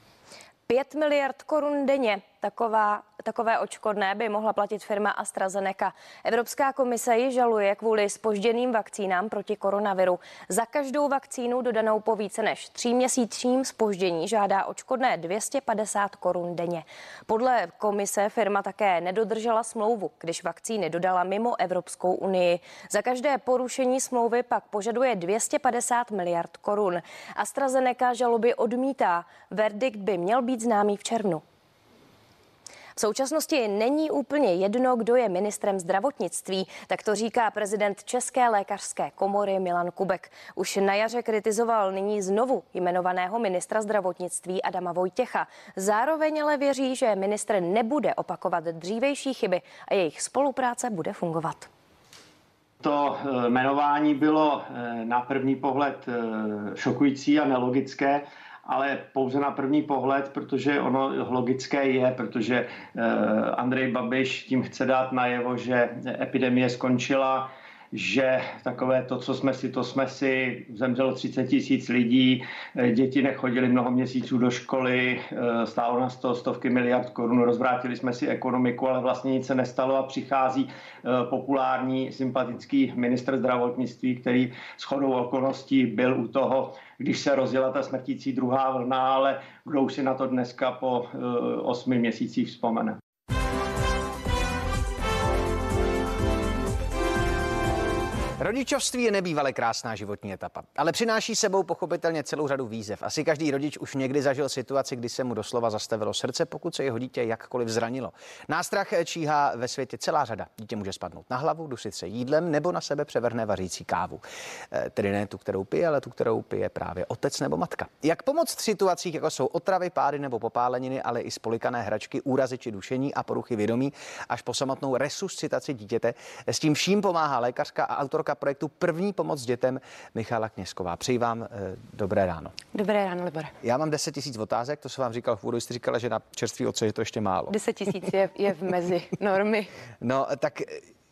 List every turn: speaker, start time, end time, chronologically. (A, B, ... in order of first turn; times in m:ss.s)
0:00.7-0:31.4 A
0:33.0-0:51.7 A
0:52.8-1:33.0 B
1:38.4-2:12.6 C
2:12.7-2:13.5 D
2:13.6-2:17.6 C
2:17.5-2:19.7 D
2:20.0-2:20.8 C